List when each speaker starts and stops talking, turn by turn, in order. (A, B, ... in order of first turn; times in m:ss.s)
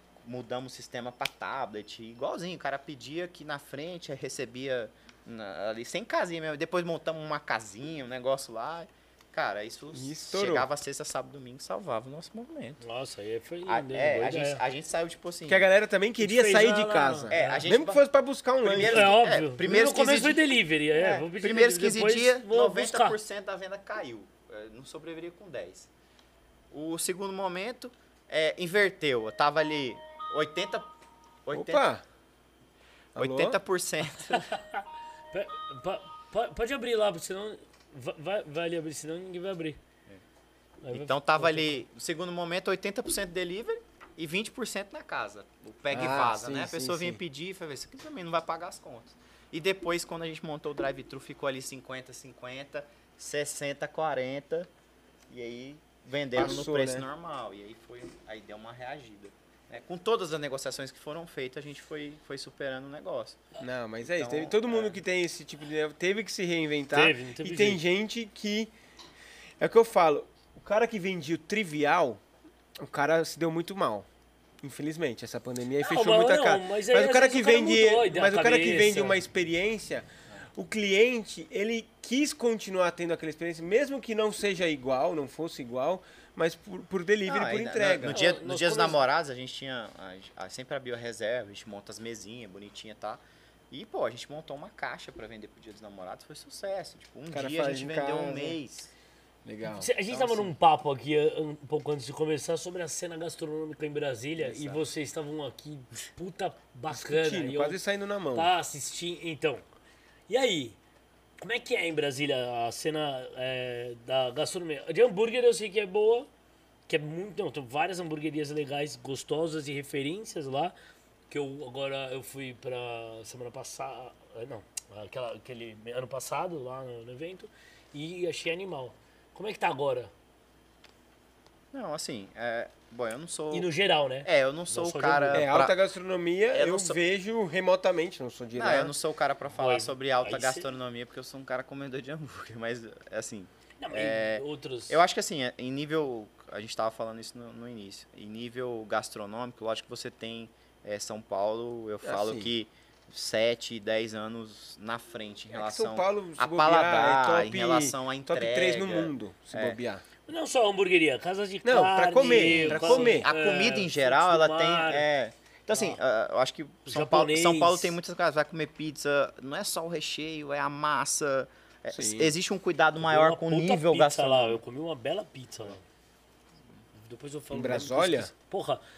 0:00.2-0:12.8 A
0:09.9-0:10.7 B
0:12.8-0:14.6 C
0:13.6-0:15.7 A
0:15.5-0:19.1 B
0:16.2-0:17.7 C
0:17.3-0:18.0 A
0:18.6-0:25.9 A
0:18.7-0:23.2 C
0:26.7-0:30.9 A
0:31.4-0:31.9 A
0:31.5-0:32.0 B
0:33.1-0:33.6 B
0:33.2-0:34.5 A
0:34.3-0:39.8 C
0:40.8-0:41.8 C
0:40.9-0:54.7 A
0:45.9-0:47.2 B
0:55.3-1:03.4 A
0:56.3-0:57.0 B
1:03.6-1:08.7 B
1:04.0-1:05.0 A
1:06.9-1:07.8 C
1:09.6-1:12.2 B
1:12.8-1:14.0 B
1:14.6-1:28.2 B
1:15.8-1:19.2 C
1:27.2-1:38.9 A
1:28.1-1:29.0 C
1:37.3-1:38.6 B
1:39.4-1:39.9 B
1:39.7-1:47.8 C
1:40.1-1:40.5 A
1:44.4-1:44.8 A
1:46.9-1:48.5 B
1:48.3-1:49.6 C
1:50.3-1:50.8 C
1:51.4-1:56.3 C
1:56.9-2:00.7 C
2:01.3-2:10.1 C
2:11.7-2:13.7 A
2:13.5-2:15.4 C
2:14.2-2:15.8 A
2:15.3-2:18.9 B
2:16.5-2:17.0 A
2:18.5-2:39.8 A
2:19.5-2:20.7 C
2:23.8-2:25.0 C
2:32.0-2:32.5 B
2:35.5-2:40.0 B
2:40.3-2:45.0 C
2:41.6-2:43.3 B
2:42.4-2:54.6 A
2:45.7-2:46.0 C
2:46.8-2:48.0 C
2:51.9-2:52.3 B
2:53.0-2:55.8 C
2:56.9-2:58.8 C
2:57.5-2:58.3 B